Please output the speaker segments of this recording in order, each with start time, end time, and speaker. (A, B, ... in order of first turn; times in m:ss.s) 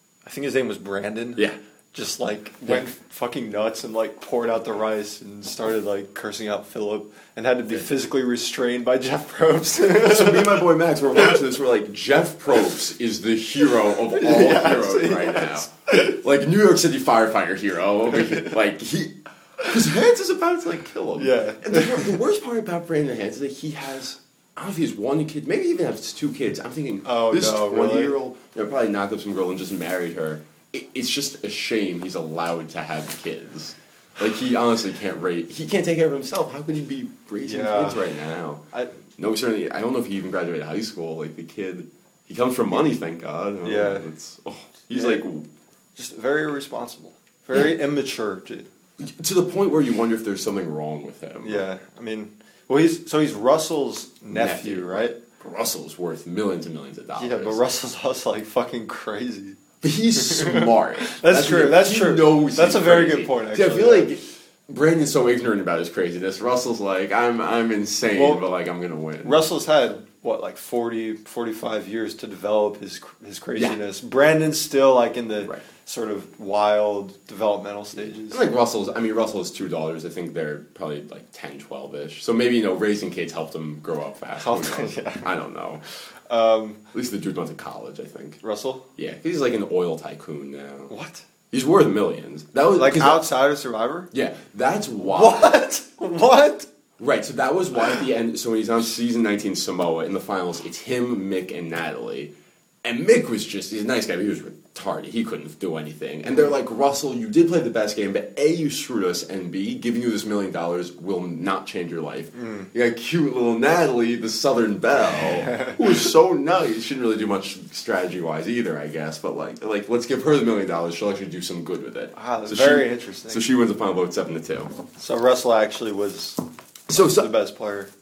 0:00.2-0:11.4 A
0:09.8-0:38.6 B
0:14.1-0:16.1 A
0:21.2-0:22.2 A
0:27.0-0:28.1 A
0:37.4-0:38.0 A
0:39.2-0:45.5 B
0:43.6-0:44.1 A
0:44.9-0:45.2 A
0:46.0-0:48.7 A
0:49.0-0:51.6 B
0:51.4-0:55.2 A
0:54.3-0:57.6 B
0:57.2-0:59.6 A
0:59.8-1:09.4 B
1:00.2-1:04.1 A
1:08.1-1:08.4 A
1:09.2-1:18.4 A
1:18.3-1:25.8 B
1:24.4-1:25.3 A
1:26.3-1:26.8 A
1:26.9-1:28.4 B
1:28.4-1:28.9 A
1:29.0-1:30.9 B
1:30.9-1:31.2 A
1:31.5-1:33.3 B
1:32.8-1:34.1 A
1:34.1-1:35.6 B
1:35.0-1:36.7 A
1:37.0-1:42.3 B
1:42.8-2:04.7 B
1:52.4-1:52.7 A
1:55.5-1:55.8 A
2:02.1-2:03.4 A
2:05.0-2:06.4 A
2:06.9-2:07.3 B
2:07.0-2:07.9 A